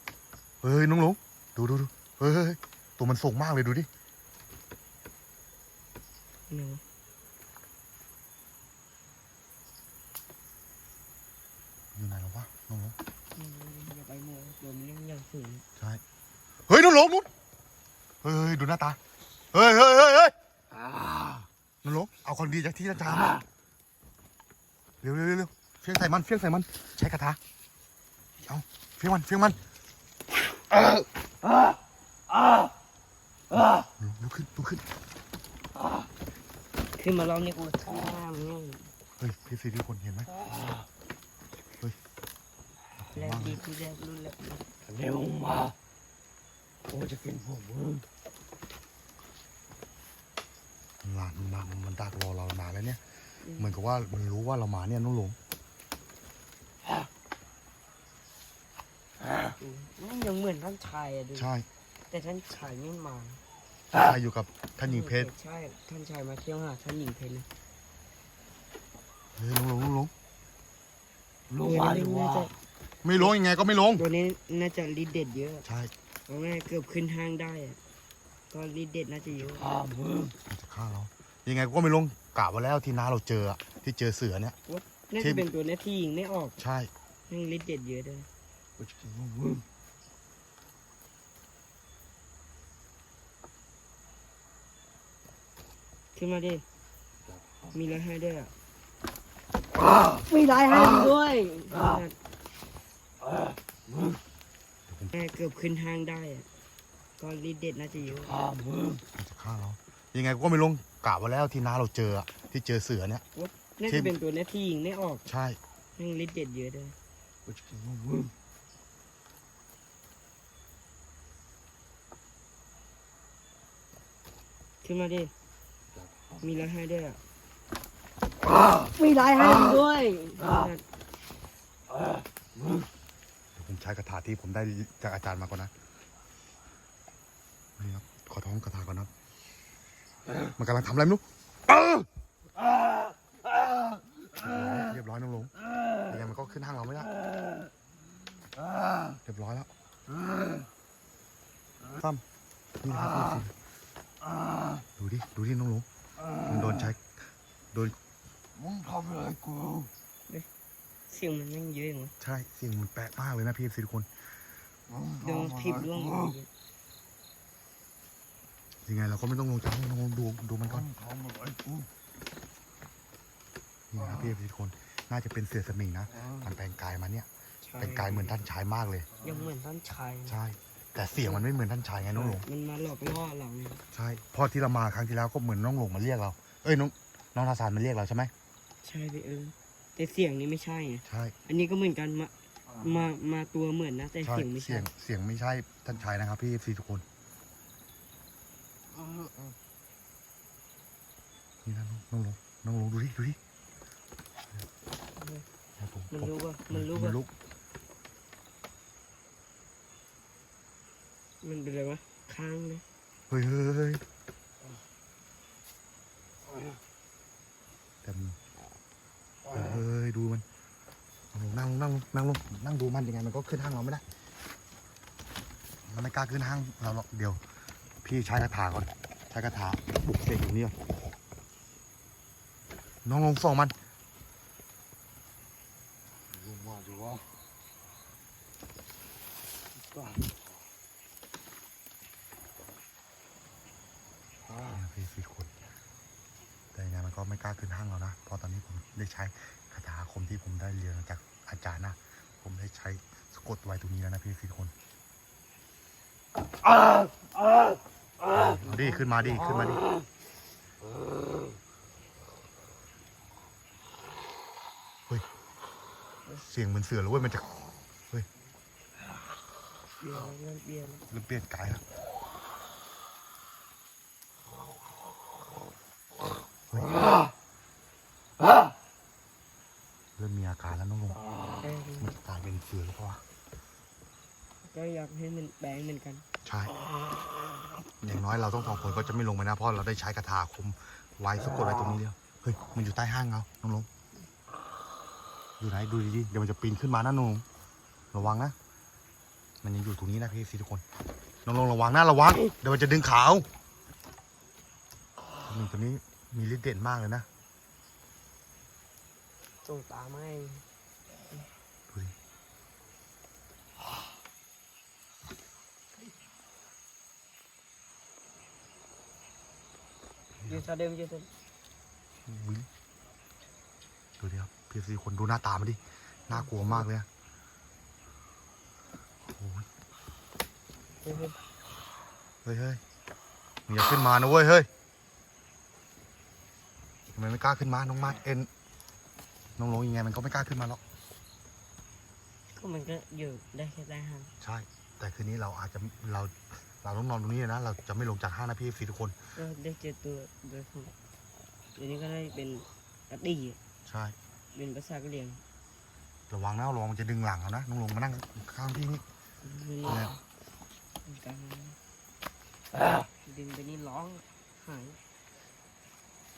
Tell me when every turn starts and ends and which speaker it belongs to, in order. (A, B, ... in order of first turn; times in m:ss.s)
0:00.6-0:03.9 A
0:06.5-0:06.8 B
0:11.9-0:13.0 A
0:13.3-0:15.6 B
0:16.7-0:17.3 A
0:18.2-0:19.0 A
0:19.5-0:20.3 A
0:21.1-0:21.4 C
0:21.8-0:23.4 A
0:25.0-0:27.4 A
0:28.4-0:29.6 A
0:33.5-0:34.8 A
0:37.0-0:38.9 B
0:39.2-0:40.4 A
0:41.7-0:42.0 A
0:43.0-0:43.6 A
0:43.1-0:44.7 B
0:44.8-0:45.7 C
0:46.9-0:48.1 C
0:51.0-0:55.4 A
0:53.4-0:53.8 B
0:59.6-1:01.5 B
1:01.4-1:01.7 A
1:02.1-1:03.4 B
1:03.9-1:05.3 A
1:04.8-1:07.5 B
1:09.4-1:10.1 A
1:11.5-1:12.5 C
1:11.6-1:12.5 B
1:13.0-1:14.0 A
1:14.0-1:15.6 B
1:15.6-1:15.9 A
1:16.3-1:17.8 B
1:18.5-1:19.6 B
1:19.6-1:20.3 C
1:20.5-1:24.6 A
1:24.7-1:26.6 B
1:25.2-1:25.4 A
1:26.6-1:26.9 A
1:27.3-1:28.3 B
1:28.8-1:29.6 C
1:36.1-1:36.6 B
1:37.7-1:38.5 B
1:40.3-1:42.1 B
1:44.9-1:45.2 A
1:45.1-1:46.5 B
1:47.2-1:48.4 B
1:48.3-1:49.0 C
1:49.1-1:53.2 A
1:53.3-1:55.2 B
1:53.9-1:54.1 A
1:55.3-1:55.6 A
1:56.0-1:57.0 B
1:57.4-1:58.3 C
2:04.8-2:05.3 B
2:06.4-2:07.2 B
2:08.9-2:10.8 B
2:13.5-2:15.7 A
2:17.8-2:19.1 A
2:20.6-2:22.0 A
2:24.4-2:25.5 A
2:26.0-2:27.1 A
2:29.2-2:29.7 A
2:32.0-2:32.2 A
2:32.8-2:33.6 A
2:35.0-2:35.8 A
2:36.4-2:38.0 A
2:38.6-2:39.9 C
2:41.1-2:42.1 B
2:42.2-2:44.3 A
2:44.9-2:45.9 C
2:45.2-2:46.5 B
2:48.8-2:50.9 A
2:50.8-2:51.8 C
2:53.9-2:59.1 A
2:57.6-2:58.3 B
2:59.2-3:00.4 B
3:00.3-3:02.5 A
3:02.1-3:03.8 B
3:03.9-3:08.3 A
3:08.8-3:14.9 B
3:11.1-3:11.4 A
3:14.2-3:17.0 A
3:21.6-3:23.4 A
3:25.2-3:25.4 B
3:25.8-3:27.3 A
3:26.1-3:27.2 B
3:31.4-3:32.8 B
3:33.3-3:34.0 A
3:38.0-3:38.4 A
3:39.5-3:40.4 A
3:41.3-3:44.0 A
3:45.8-3:47.4 A
3:48.0-3:50.8 A
3:53.0-3:53.7 A
3:56.3-3:57.2 C
3:59.9-4:00.4 C
4:04.5-4:04.8 C
4:04.6-4:05.5 A
4:06.7-4:14.7 A
4:18.3-4:19.8 A
4:18.7-4:19.0 B
4:26.4-4:28.3 A
4:30.0-4:31.1 B
4:31.1-4:31.8 A
4:36.7-4:37.0 A
4:40.2-4:41.2 A
4:41.6-4:42.1 B
4:42.0-4:43.2 A
4:44.6-4:46.3 B
4:46.4-4:46.7 A
4:48.0-4:53.9 A
4:55.6-4:57.4 A
4:58.1-4:58.5 A
4:59.6-5:00.8 A
5:01.4-5:03.5 A
5:05.4-5:07.3 A
5:09.6-5:10.6 B
5:11.9-5:12.1 A
5:20.4-5:20.6 A
5:20.5-5:21.3 B
5:22.2-5:22.7 A
5:24.2-5:27.1 A
5:26.3-5:26.8 B
5:29.2-5:29.7 A
5:31.0-5:31.4 B
5:32.4-5:32.8 A
5:33.7-5:34.7 A
5:37.1-5:38.5 A
5:39.6-5:40.8 A
5:42.5-5:44.3 B
5:44.4-5:49.2 A
5:49.4-5:50.9 B
5:51.8-5:53.6 B
5:53.8-5:54.2 A
5:54.5-5:55.4 B
5:56.3-5:59.0 A
5:59.4-6:00.2 B
5:59.8-6:00.1 A
6:01.0-6:01.8 B
6:03.2-6:05.0 B